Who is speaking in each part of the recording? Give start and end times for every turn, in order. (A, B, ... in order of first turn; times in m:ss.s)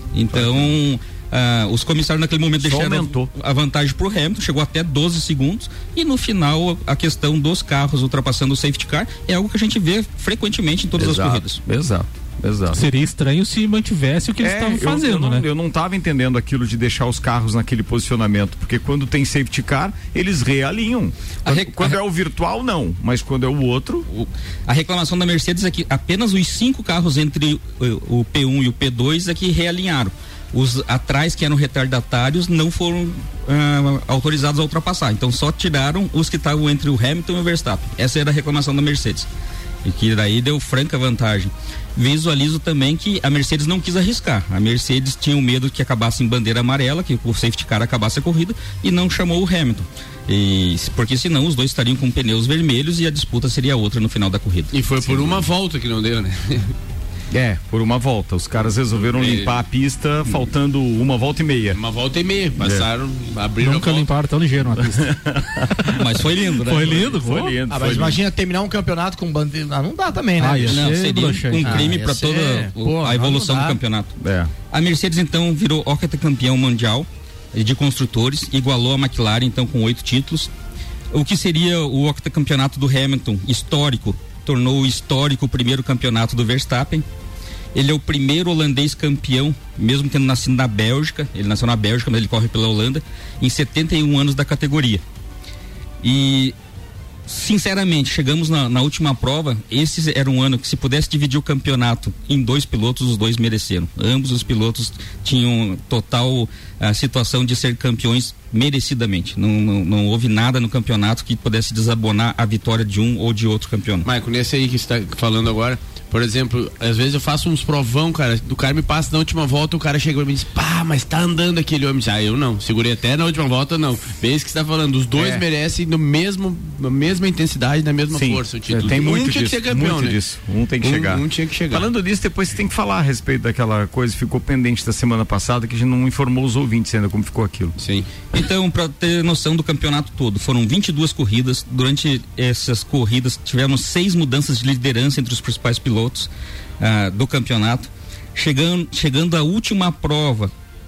0:00.1-0:11.6 A
0:00.3-0:00.7 B
0:02.6-0:03.3 B
0:11.0-0:12.8 B
0:12.7-0:15.4 C
0:14.4-0:24.1 B
0:21.4-0:22.0 A
0:24.1-0:39.3 A
0:39.8-0:55.4 A
0:54.7-0:56.7 D
0:57.3-1:01.8 B
0:59.1-0:59.6 D
1:01.7-1:04.1 D
1:02.6-1:02.8 B
1:03.6-1:05.2 C
1:04.8-1:08.2 B
1:05.9-1:07.1 A
1:06.6-1:07.6 C
1:07.7-1:10.9 E
1:07.8-1:08.1 D
1:10.4-1:11.9 C
1:10.7-1:14.1 A
1:11.6-1:13.8 E
1:14.2-1:14.5 B
1:14.7-1:20.5 A
1:21.1-1:27.0 A
1:27.7-1:35.0 A
1:36.0-1:36.5 A
1:37.3-1:54.1 A
1:54.0-2:10.2 D
2:05.2-2:05.4 B
2:08.1-2:17.8 B
2:10.8-2:11.9 D
2:17.8-2:18.1 D
2:18.3-2:30.5 A